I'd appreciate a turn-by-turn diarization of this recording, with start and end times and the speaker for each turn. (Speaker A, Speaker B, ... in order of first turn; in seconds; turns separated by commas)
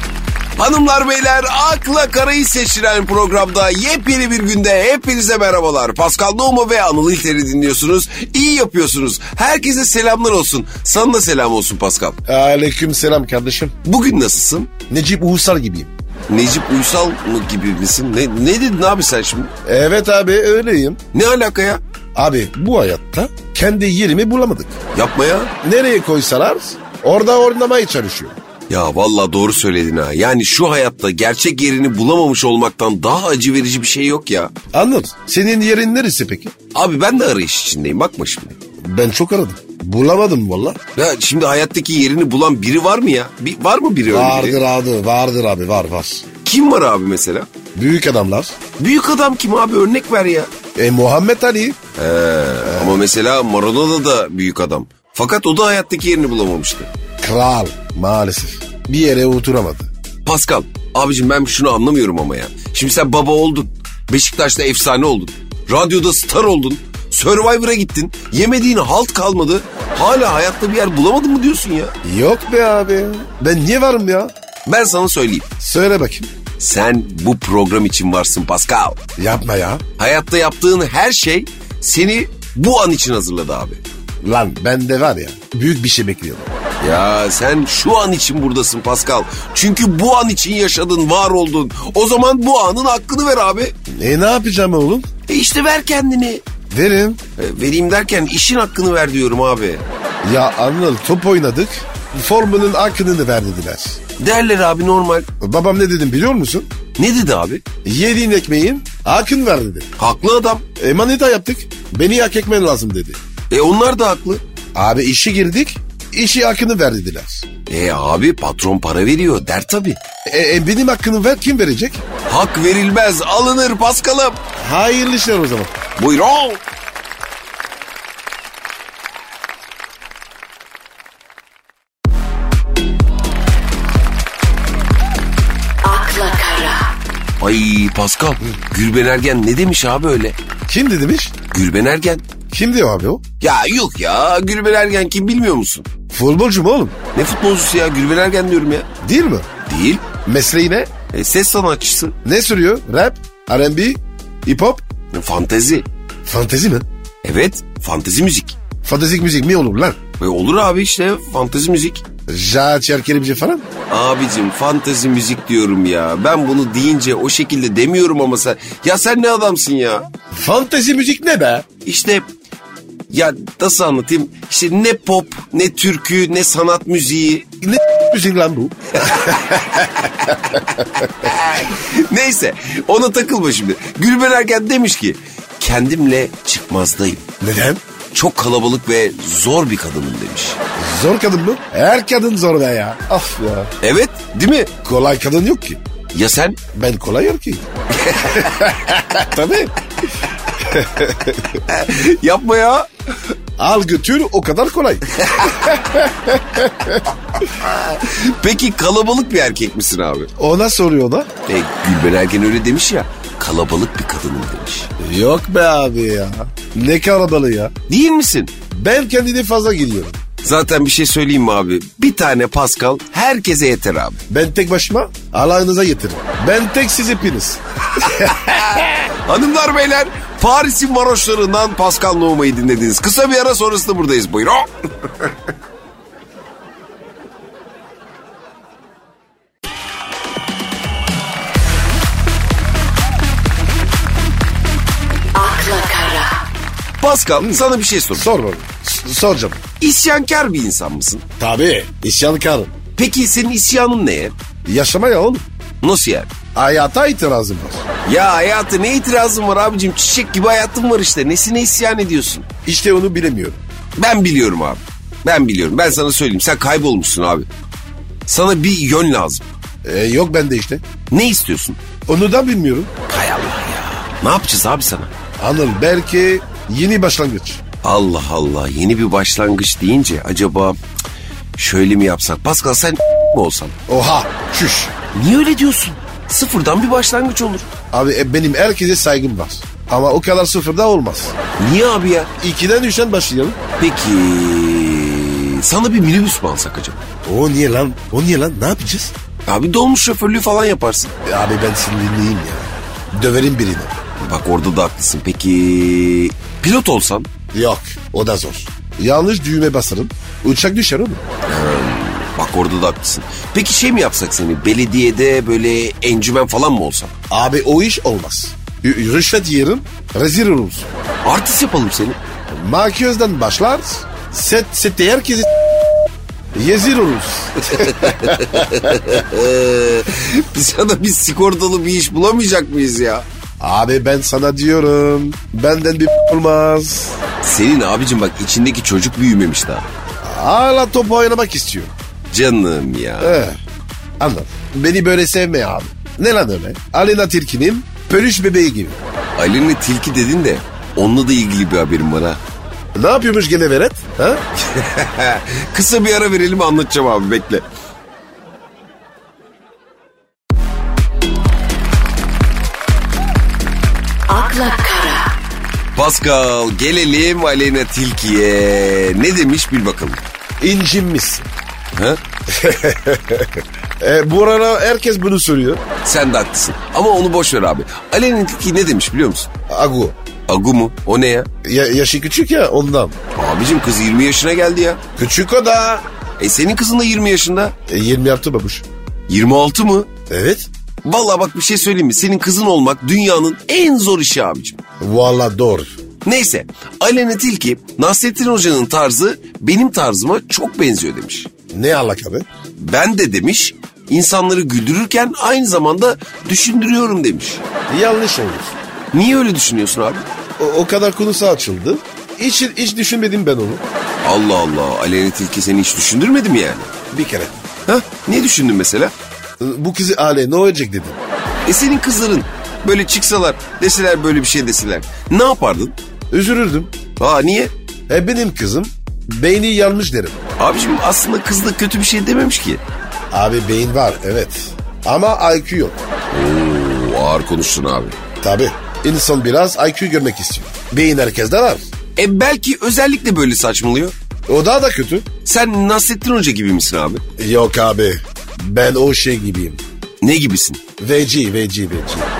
Speaker A: 0.6-12.2, Speaker B: 12.2-13.7, Speaker A: 13.8-14.7, Speaker B: 14.9-15.9, Speaker A: 16.3-19.5, Speaker B: 19.6-21.0, Speaker A: 21.1-21.8, Speaker B: 22.1-24.8, Speaker A: 24.9-25.5, Speaker B: 25.6-28.4, Speaker A: 28.7-34.5, Speaker B: 34.7-36.5, Speaker A: 36.7-38.5, Speaker B: 38.8-40.8, Speaker A: 41.0-44.6, Speaker B: 44.0-46.2, Speaker A: 46.4-47.5, Speaker B: 47.7-48.5, Speaker A: 48.8-50.5, Speaker B: 50.8-51.8, Speaker A: 52.0-56.9, Speaker B: 52.6-53.0, Speaker B: 57.2-59.9, Speaker A: 60.2-71.9, Speaker B: 72.0-74.3, Speaker A: 74.7-75.5, Speaker B: 75.6-76.3, Speaker A: 76.6-79.0, Speaker B: 79.2-79.8, Speaker A: 80.0-83.8, Speaker B: 84.2-86.5, Speaker A: 86.8-93.7, Speaker B: 94.0-95.1, Speaker A: 95.3-96.4, Speaker B: 96.7-97.2, Speaker A: 97.4-99.8, Speaker B: 100.2-104.0, Speaker A: 104.2-105.3, Speaker B: 105.4-106.7, Speaker A: 107.0-107.6, Speaker B: 107.8-109.9, Speaker A: 110.0-110.6, Speaker B: 110.8-113.2, Speaker A: 113.5-114.4, Speaker B: 114.7-117.4, Speaker A: 117.7-120.0, Speaker B: 120.3-122.0, Speaker A: 122.3-124.4, Speaker B: 124.6-125.7, Speaker A: 126.0-126.6, Speaker C: 135.8-136.8, Speaker A: 137.4-140.3, Speaker B: 140.7-141.3, Speaker A: 141.5-142.2, Speaker B: 142.5-143.2, Speaker A: 143.4-145.9, Speaker B: 146.1-146.9, Speaker A: 147.1-148.9, Speaker B: 149.0-149.5, Speaker A: 149.7-150.0, Speaker B: 150.2-150.9, Speaker A: 151.1-152.1, Speaker B: 152.2-154.8, Speaker A: 155.1-155.8, Speaker B: 156.2-156.8, Speaker A: 157.2-158.6, Speaker B: 158.8-160.0, Speaker A: 160.2-162.0, Speaker B: 162.3-163.7, Speaker A: 163.9-170.1, Speaker B: 170.3-171.7, Speaker A: 171.8-172.2, Speaker A: 173.1-177.4, Speaker B: 177.6-179.6, Speaker A: 179.0-187.2, Speaker B: 187.4-187.8, Speaker A: 188.1-190.6, Speaker B: 190.8-193.7, Speaker A: 193.8-194.7, Speaker B: 194.8-195.8, Speaker A: 196.1-196.6, Speaker B: 196.7-197.7, Speaker A: 197.9-198.7, Speaker B: 198.2-199.7, Speaker B: 200.6-201.5, Speaker A: 201.5-202.9, Speaker B: 203.6-207.1, Speaker A: 205.2-205.5, Speaker A: 207.4-210.3, Speaker B: 210.4-211.3, Speaker A: 211.4-214.9, Speaker B: 215.0-217.7, Speaker A: 217.9-218.5, Speaker B: 218.7-220.2, Speaker A: 220.4-224.2, Speaker B: 224.3-228.9, Speaker A: 228.2-235.1, Speaker C: 245.3-246.4, Speaker A: 247.0-248.3, Speaker B: 248.1-249.6, Speaker A: 249.8-251.2, Speaker B: 251.4-252.7, Speaker A: 252.9-254.3, Speaker B: 254.7-255.4, Speaker A: 255.8-256.3, Speaker B: 256.5-257.8, Speaker A: 258.1-262.5, Speaker B: 262.6-263.6, Speaker A: 264.0-267.5, Speaker A: 268.3-269.4, Speaker B: 269.8-270.8, Speaker A: 271.1-271.8, Speaker B: 272.1-272.9, Speaker A: 273.1-275.1, Speaker B: 275.4-277.6, Speaker A: 277.8-280.8, Speaker A: 281.6-283.7, Speaker B: 283.9-284.9, Speaker A: 285.1-287.7, Speaker B: 287.9-291.3, Speaker A: 291.6-292.3, Speaker B: 292.4-293.6, Speaker A: 293.8-297.0, Speaker B: 297.2-299.1, Speaker A: 299.5-301.1, Speaker B: 301.2-303.9, Speaker A: 304.2-307.3, Speaker B: 307.5-311.2, Speaker A: 311.5-317.1, Speaker B: 317.3-320.9, Speaker A: 321.2-322.2, Speaker B: 322.5-325.5, Speaker B: 326.5-328.9, Speaker A: 327.7-333.2, Speaker B: 333.6-337.2, Speaker A: 337.4-339.9, Speaker B: 340.2-341.9, Speaker A: 342.3-343.4, Speaker B: 343.2-343.6, Speaker B: 344.2-349.0, Speaker A: 349.4-352.4, Speaker B: 352.9-354.4, Speaker A: 354.6-357.6, Speaker C: 364.3-365.2, Speaker A: 365.9-370.2, Speaker B: 370.6-371.5, Speaker A: 371.9-372.2, Speaker B: 372.5-375.8, Speaker A: 376.0-379.5, Speaker B: 379.7-380.1, Speaker A: 380.5-381.5, Speaker B: 381.6-383.1, Speaker A: 383.3-385.0, Speaker B: 385.2-386.0, Speaker A: 386.4-387.7, Speaker B: 387.9-388.8, Speaker A: 389.3-390.1, Speaker B: 390.3-390.7, Speaker A: 391.0-394.8, Speaker B: 395.0-395.9, Speaker A: 396.2-401.5, Speaker B: 401.7-402.4, Speaker A: 402.8-407.6, Speaker B: 407.9-408.7, Speaker A: 409.1-410.2, Speaker B: 410.6-413.8, Speaker A: 414.2-416.9, Speaker B: 417.1-417.6, Speaker A: 417.9-419.1, Speaker B: 419.6-421.2, Speaker A: 421.6-425.9, Speaker B: 426.3-426.9, Speaker A: 427.2-427.7, Speaker B: 428.1-430.4, Speaker A: 430.6-432.8, Speaker B: 433.3-436.0, Speaker A: 436.3-438.1, Speaker B: 438.4-441.9, Speaker A: 442.1-444.1, Speaker B: 444.5-445.2, Speaker A: 445.4-447.2, Speaker B: 447.4-449.8, Speaker A: 450.2-450.8, Speaker B: 451.0-452.3